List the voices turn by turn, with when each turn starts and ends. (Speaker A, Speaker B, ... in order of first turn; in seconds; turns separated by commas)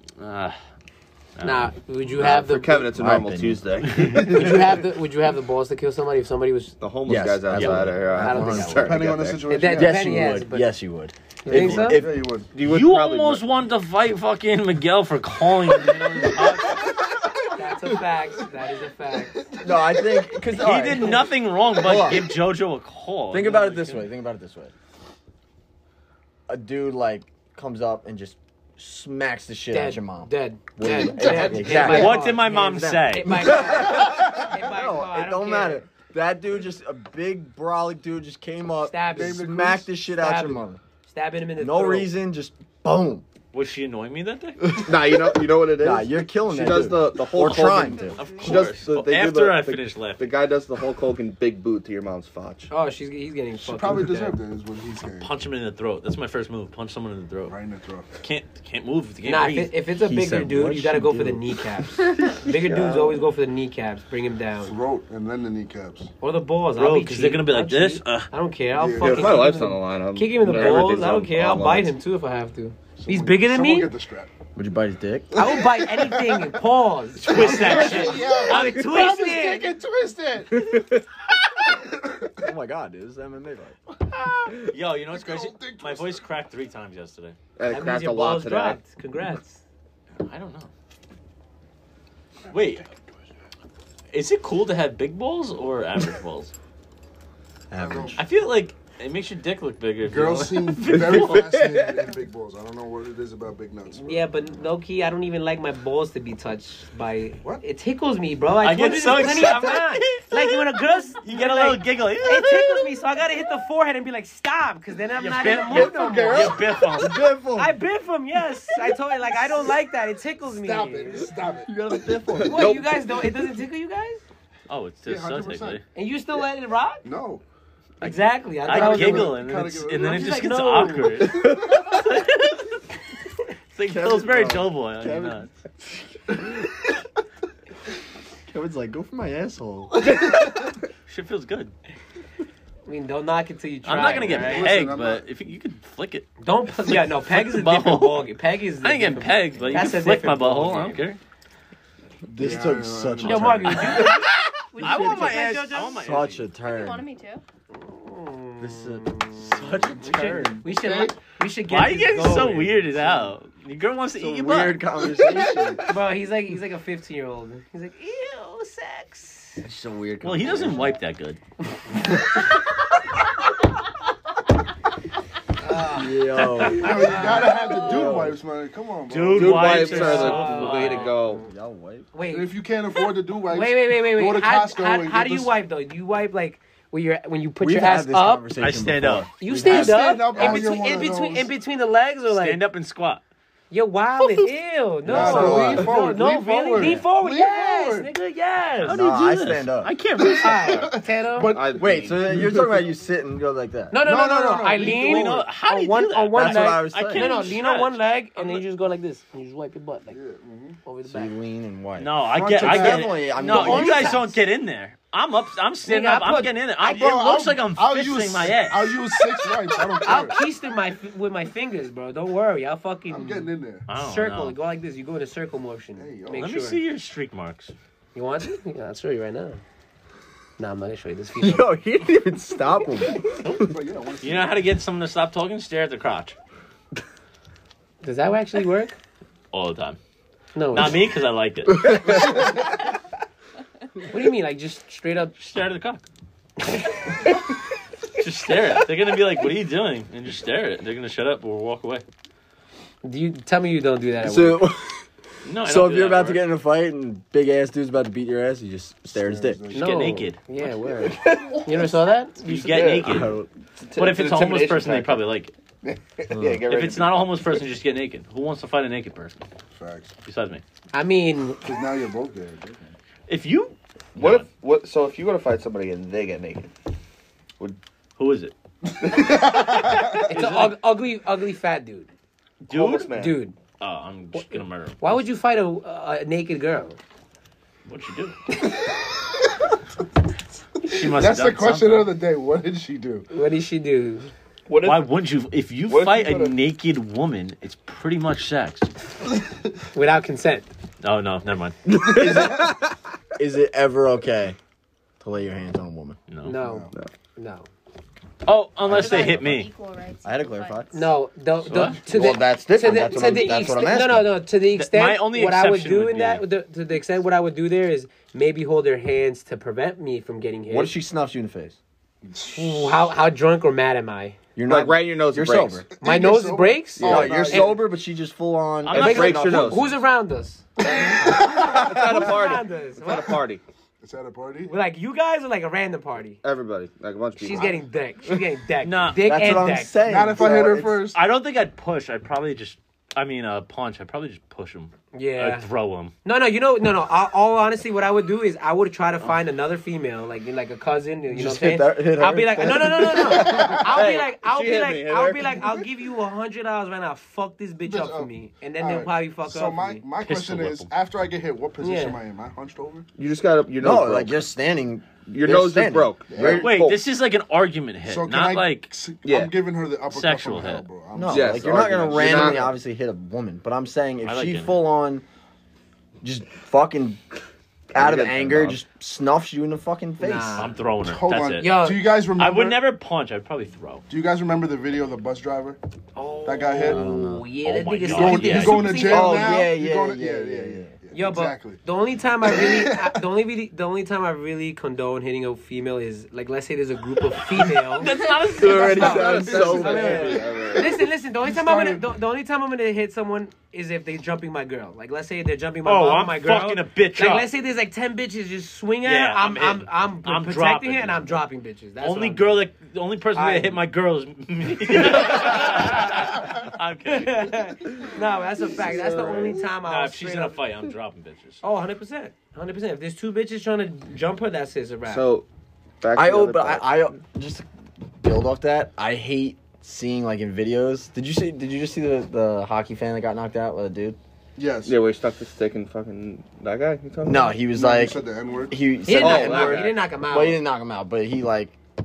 Speaker A: 0.2-0.6, Speaker A: 1.4-1.7, Speaker B: 1.4-2.9, Speaker C: 2.2-4.7, Speaker D: 2.9-3.6, Speaker A: 3.9-4.2, Speaker E: 4.1-4.7, Speaker B: 4.2-6.8, Speaker C: 6.8-9.5, Speaker D: 7.0-8.9, Speaker B: 8.1-8.9, Speaker E: 8.8-10.3, Speaker B: 9.5-10.7, Speaker D: 9.8-12.2, Speaker B: 11.4-12.0, Speaker E: 11.5-12.5, Speaker C: 12.5-13.5, Speaker A: 12.6-16.9, Speaker E: 16.2-16.8, Speaker B: 17.6-19.4, Speaker D: 19.6-21.2, Speaker A: 20.5-24.1, Speaker D: 21.8-22.3, Speaker D: 23.3-24.7, Speaker D: 26.5-40.8, Speaker B: 29.7-35.8, Speaker A: 31.7-33.5, Speaker B: 38.8-39.5, Speaker E: 39.1-39.9, Speaker B: 40.1-42.1, Speaker D: 41.6-43.2, Speaker A: 43.5-44.8, Speaker D: 44.6-49.5, Speaker C: 44.7-52.7, Speaker A: 47.4-50.2, Speaker F: 47.9-48.5, Speaker B: 52.7-54.4, Speaker E: 53.6-55.3, Speaker A: 55.2-57.5, Speaker E: 57.5-58.1, Speaker A: 58.2-59.7, Speaker B: 59.2-64.7, Speaker D: 60.0-61.8, Speaker C: 62.5-63.2, Speaker E: 64.6-66.1, Speaker B: 66.2-73.9, Speaker A: 66.8-68.3, Speaker E: 68.8-69.5, Speaker C: 69.0-71.9, Speaker E: 73.0-74.3, Speaker D: 74.5-75.3, Speaker E: 75.3-76.3, Speaker B: 75.3-79.8, Speaker A: 77.2-78.8, Speaker E: 77.3-80.6, Speaker D: 80.5-81.1, Speaker E: 82.0-82.3, Speaker D: 82.4-83.8, Speaker E: 84.2-86.2, Speaker A: 84.7-87.4, Speaker C: 87.6-88.8, Speaker B: 87.6-89.6, Speaker A: 90.2-90.7, Speaker A: 92.5-92.9, Speaker A: 94.1-96.5, Speaker D: 97.7-98.2, Speaker E: 97.7-98.2, Speaker A: 98.2-101.8, Speaker E: 100.0-104.3, Speaker B: 103.9-116.6, Speaker A: 108.6-112.9, Speaker A: 115.2-117.2, Speaker C: 115.7-116.6, Speaker D: 115.7-117.7, Speaker B: 117.5-121.3, Speaker E: 120.5-121.8, Speaker D: 121.7-123.0, Speaker B: 122.4-124.2, Speaker E: 122.5-122.8, Speaker A: 124.7-125.8, Speaker E: 125.0-125.8, Speaker B: 125.9-127.1, Speaker E: 127.0-127.4, Speaker B: 128.0-132.3, Speaker A: 128.6-132.3, Speaker E: 128.7-131.5, Speaker A: 133.7-135.5, Speaker D: 133.8-135.5, Speaker D: 138.5-140.4, Speaker A: 141.1-141.7, Speaker B: 142.8-144.7, Speaker A: 143.8-148.3, Speaker E: 144.0-145.2, Speaker B: 146.4-151.1, Speaker A: 148.8-151.2, Speaker D: 152.3-157.0, Speaker E: 152.3-154.1, Speaker B: 153.2-156.1, Speaker A: 154.8-156.5, Speaker F: 156.6-157.4, Speaker B: 157.7-163.1, Speaker D: 158.6-160.7, Speaker E: 160.1-161.2, Speaker A: 161.7-164.9, Speaker D: 164.2-165.9, Speaker B: 165.8-169.6, Speaker D: 169.6-170.9, Speaker A: 170.2-171.4, Speaker B: 175.6-176.1, Speaker D: 175.8-178.3, Speaker A: 176.3-177.1, Speaker E: 176.7-179.9, Speaker B: 176.8-177.8, Speaker A: 179.1-181.2, Speaker C: 179.3-181.4, Speaker D: 179.8-182.1, Speaker B: 179.9-180.8, Speaker B: 182.1-182.5, Speaker E: 182.3-185.6, Speaker B: 183.4-188.5, Speaker D: 187.6-190.7, Speaker A: 188.6-189.3, Speaker B: 189.4-192.6, Speaker E: 189.5-191.5, Speaker A: 192.3-193.2, Speaker B: 193.7-199.0, Speaker D: 195.1-196.0, Speaker E: 195.1-198.1, Speaker A: 198.8-200.9, Speaker D: 198.9-199.9, Speaker E: 200.2-202.9, Speaker B: 200.3-201.6, Speaker C: 201.5-202.4, Speaker D: 201.8-204.0, Speaker B: 203.9-210.2, Speaker E: 204.0-205.4, Speaker A: 204.8-208.6, Speaker D: 206.3-207.4, Speaker E: 210.1-210.8, Speaker B: 210.8-211.3, Speaker D: 211.1-214.2, Speaker A: 212.0-219.0, Speaker E: 212.3-214.1, Speaker B: 213.3-214.3, Speaker B: 215.8-216.9, Speaker E: 216.8-220.4, Speaker B: 220.0-226.8, Speaker E: 223.1-223.8, Speaker A: 223.9-224.6, Speaker E: 226.0-226.6, Speaker A: 226.3-227.7, Speaker B: 228.1-229.6, Speaker B: 230.6-231.8, Speaker D: 231.4-233.7, Speaker A: 233.4-233.7, Speaker E: 233.5-234.7, Speaker A: 234.2-236.3, Speaker B: 238.0-238.9, Speaker A: 239.5-240.0, Speaker B: 240.5-241.1, Speaker A: 240.7-242.2, Speaker D: 241.8-242.3, Speaker B: 244.1-245.3, Speaker A: 245.3-246.0, Speaker A: 248.2-252.0, Speaker B: 253.0-254.7, Speaker D: 254.2-255.0, Speaker A: 255.4-256.4, Speaker D: 255.6-259.6, Speaker E: 259.1-260.2, Speaker A: 259.7-260.4, Speaker B: 259.7-262.4, Speaker A: 262.4-263.4, Speaker C: 262.4-265.2, Speaker D: 263.0-263.5, Speaker A: 263.9-265.5, Speaker C: 265.8-267.6, Speaker D: 266.3-266.6, Speaker A: 266.7-269.4, Speaker E: 269.7-270.1, Speaker A: 270.2-270.6, Speaker B: 270.9-271.6, Speaker E: 271.6-272.9, Speaker A: 273.3-274.5, Speaker C: 274.1-276.7, Speaker A: 278.2-278.5, Speaker E: 279.0-280.3, Speaker A: 279.7-280.8, Speaker B: 280.0-282.1, Speaker A: 282.6-283.1, Speaker C: 282.7-283.4, Speaker B: 283.0-283.6, Speaker A: 283.8-285.0, Speaker B: 285.0-287.0, Speaker A: 287.9-288.4, Speaker E: 290.8-293.3, Speaker A: 290.8-292.1, Speaker B: 293.3-294.3, Speaker C: 294.7-295.1, Speaker A: 294.8-298.9, Speaker C: 295.9-296.5, Speaker B: 299.9-300.7, Speaker A: 301.0-301.8, Speaker D: 301.9-302.8, Speaker E: 301.9-302.8, Speaker D: 303.4-304.6, Speaker D: 305.2-306.2, Speaker A: 306.3-306.6, Speaker B: 306.4-307.7, Speaker E: 306.5-306.9, Speaker A: 308.4-309.7, Speaker D: 308.9-309.6, Speaker F: 308.9-311.0, Speaker D: 310.2-311.0, Speaker B: 310.9-320.9, Speaker A: 311.6-312.0, Speaker D: 312.1-314.4, Speaker F: 312.9-313.9, Speaker A: 314.7-316.4, Speaker D: 320.7-321.8, Speaker E: 322.3-322.9, Speaker B: 322.5-324.4, Speaker D: 324.6-325.8, Speaker C: 324.6-325.8, Speaker E: 325.9-327.8, Speaker B: 326.0-327.7, Speaker C: 327.0-327.7, Speaker D: 327.0-329.8, Speaker A: 328.8-329.4, Speaker C: 328.9-329.9, Speaker B: 328.9-333.4, Speaker E: 330.8-331.8, Speaker C: 331.3-333.6, Speaker E: 334.0-334.7, Speaker B: 334.6-336.4, Speaker C: 336.4-337.8, Speaker B: 337.4-340.0, Speaker A: 338.8-339.3, Speaker D: 339.2-341.1, Speaker E: 340.0-341.2, Speaker A: 341.1-346.1, Speaker B: 345.1-345.7, Speaker B: 346.2-360.0, Speaker D: 351.3-353.8, Speaker E: 353.0-353.9, Speaker C: 353.9-355.8, Speaker E: 357.8-363.1, Speaker A: 360.2-360.9, Speaker B: 361.8-362.2, Speaker C: 363.1-364.4, Speaker D: 363.8-366.7, Speaker C: 365.3-367.0, Speaker E: 366.3-366.7, Speaker A: 366.4-368.9, Speaker E: 368.0-372.7, Speaker C: 369.2-369.5, Speaker A: 370.1-370.9, Speaker D: 371.1-375.2, Speaker C: 371.3-372.7, Speaker A: 374.2-374.8, Speaker D: 376.2-377.2, Speaker D: 377.9-380.7, Speaker C: 377.9-378.8, Speaker B: 380.2-380.8, Speaker A: 380.6-384.1, Speaker E: 381.0-382.8, Speaker B: 381.6-382.2, Speaker E: 384.1-385.8, Speaker B: 386.1-389.6, Speaker E: 386.4-387.1, Speaker D: 386.8-387.5, Speaker A: 387.6-389.0, Speaker E: 388.0-391.8, Speaker D: 388.9-390.9, Speaker B: 391.1-398.1, Speaker E: 392.4-393.2, Speaker A: 397.9-399.8, Speaker F: 398.0-398.5, Speaker C: 398.6-401.0, Speaker B: 398.6-412.6, Speaker E: 398.6-400.8, Speaker D: 398.7-400.5, Speaker E: 401.5-402.0, Speaker A: 405.8-407.5, Speaker A: 409.0-411.4, Speaker A: 412.0-417.6, Speaker B: 413.3-413.8, Speaker B: 414.9-415.9, Speaker B: 417.1-420.6, Speaker C: 418.7-419.7, Speaker A: 419.8-421.6, Speaker B: 421.6-425.3, Speaker C: 425.1-425.4, Speaker C: 426.0-427.2, Speaker D: 426.1-427.6, Speaker D: 428.2-434.2, Speaker E: 434.6-434.9, Speaker C: 434.8-437.6, Speaker D: 437.2-438.2, Speaker E: 437.7-439.8, Speaker D: 438.7-441.8, Speaker B: 439.0-440.6, Speaker C: 439.1-439.9